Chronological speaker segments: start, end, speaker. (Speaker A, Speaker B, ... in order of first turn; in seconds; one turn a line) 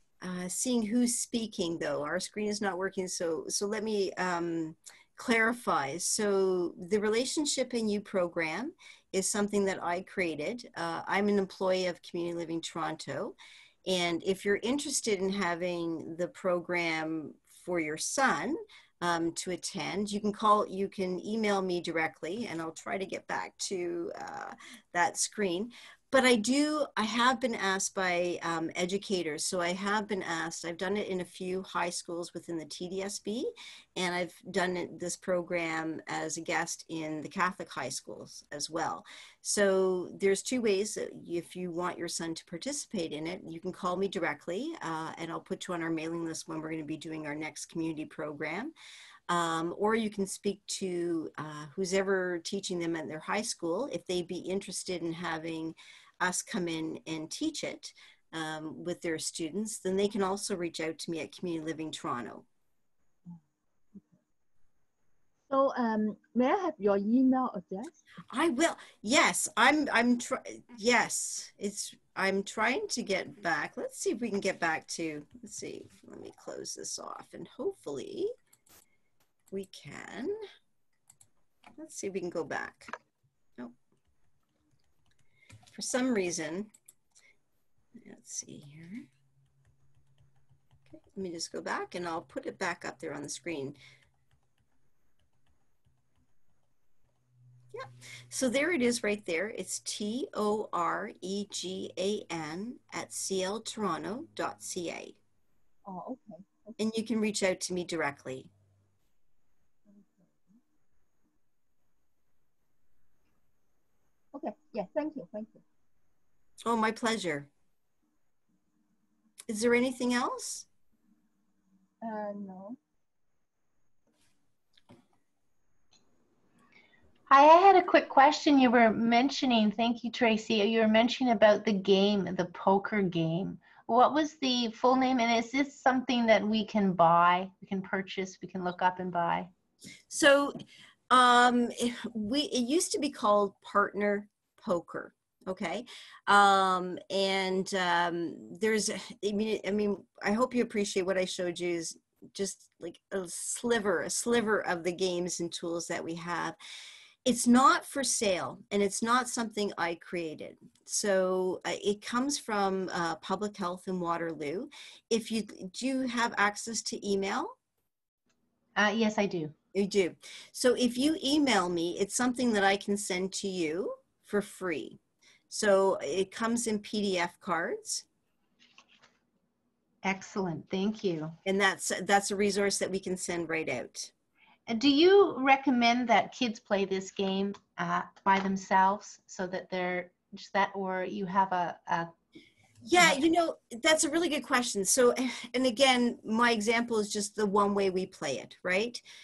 Speaker A: 0.2-48.7
Speaker A: 49.3-62.5
Speaker B: 65.5-68.0
Speaker A: 68.3-78.3
Speaker A: 79.5-80.4
Speaker A: 81.8-82.9
Speaker A: 85.7-86.7
Speaker A: 88.0-89.1
Speaker A: 90.9-93.8
Speaker A: 97.7-105.2
Speaker B: 105.8-106.8
Speaker A: 106.8-108.5
Speaker B: 109.9-110.3
Speaker B: 114.3-115.6
Speaker A: 116.7-117.5
Speaker A: 119.5-120.7
Speaker B: 122.0-122.8
Speaker C: 127.3-139.5
Speaker A: 140.1-140.6
Speaker A: 141.1-156.6
Speaker A: 157.2-167.5
Speaker C: 168.8-169.5
Speaker A: 169.7-175.0
Speaker A: 175.5-178.1
Speaker C: 180.0-181.4
Speaker A: 181.4-184.1
Speaker C: 184.7-192.1
Speaker A: 192.8-199.0